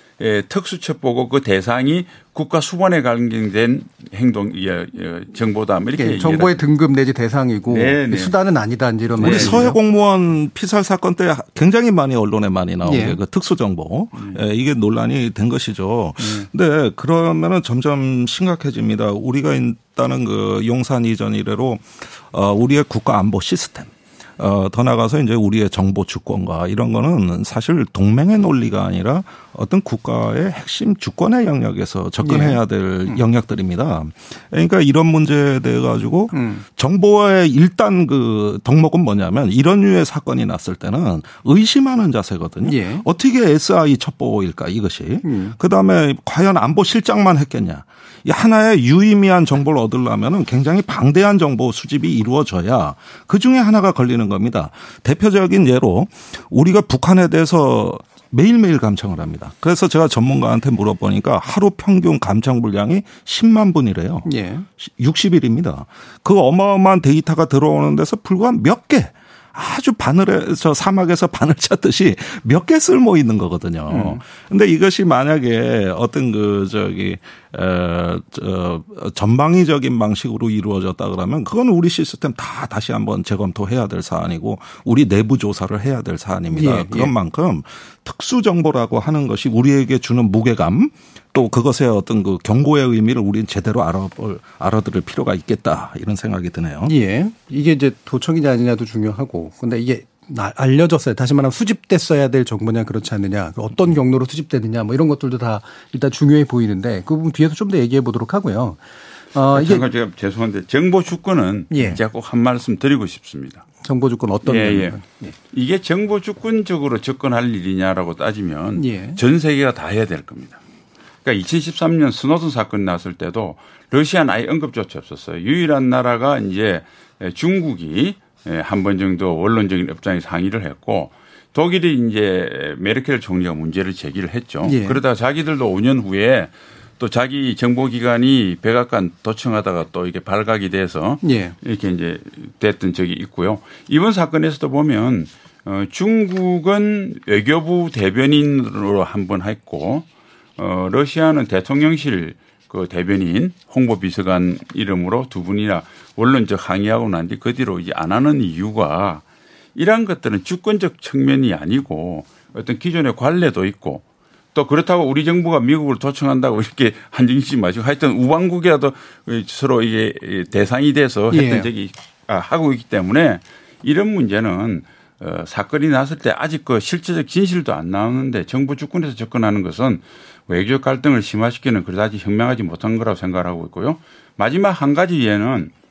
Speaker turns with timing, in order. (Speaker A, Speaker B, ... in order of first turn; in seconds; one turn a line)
Speaker A: 0.2-6.6
Speaker B: 6.0-9.8
Speaker A: 7.7-8.3
Speaker A: 9.2-9.7
Speaker C: 9.2-97.0
Speaker B: 12.9-13.2
Speaker B: 32.2-33.2
Speaker B: 36.3-36.6
Speaker B: 42.6-43.1
Speaker B: 45.2-45.6
Speaker B: 64.3-64.7
Speaker B: 73.9-74.2
Speaker B: 86.5-87.1
Speaker B: 96.9-108.8
Speaker B: 109.3-109.8
Speaker A: 109.5-113.7
Speaker B: 111.7-112.0
Speaker B: 113.8-115.3
Speaker A: 114.5-120.6
Speaker B: 118.8-119.2
Speaker A: 121.2-150.1
Speaker B: 134.7-135.0
Speaker B: 141.2-141.6
Speaker A: 150.6-159.2
Speaker A: 159.8-164.0
Speaker A: 164.5-185.7
Speaker B: 171.3-171.7